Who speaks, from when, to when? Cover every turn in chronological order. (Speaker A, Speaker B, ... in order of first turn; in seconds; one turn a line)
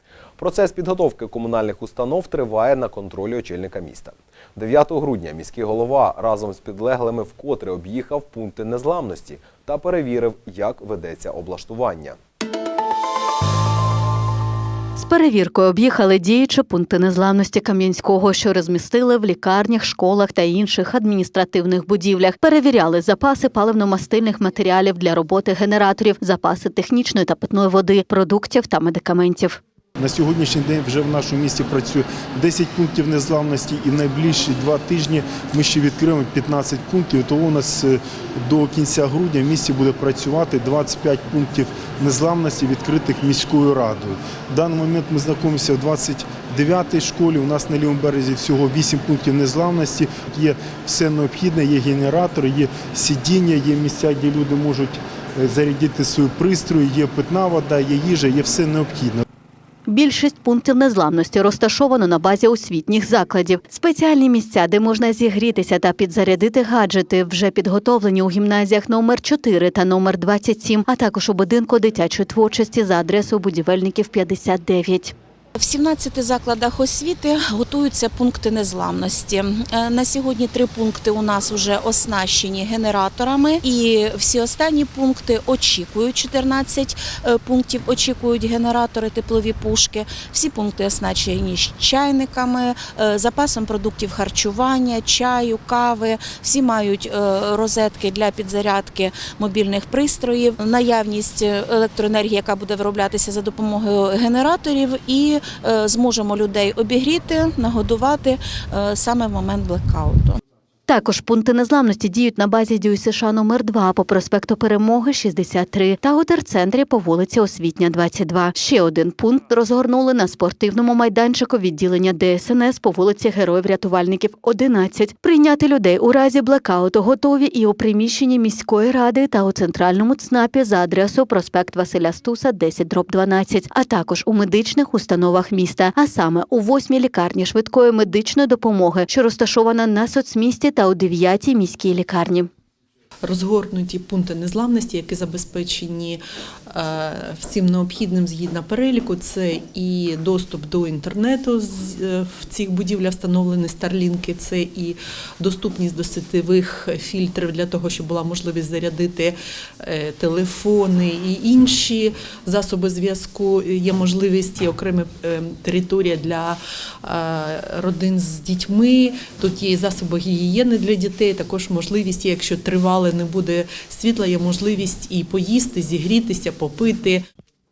Speaker A: 0.4-12.2
Speaker B: 15.0-29.6
Speaker C: 30.0-59.2
Speaker B: 59.9-75.1
Speaker D: 75.6-110.4
Speaker B: 110.9-142.5
Speaker E: 143.2-177.3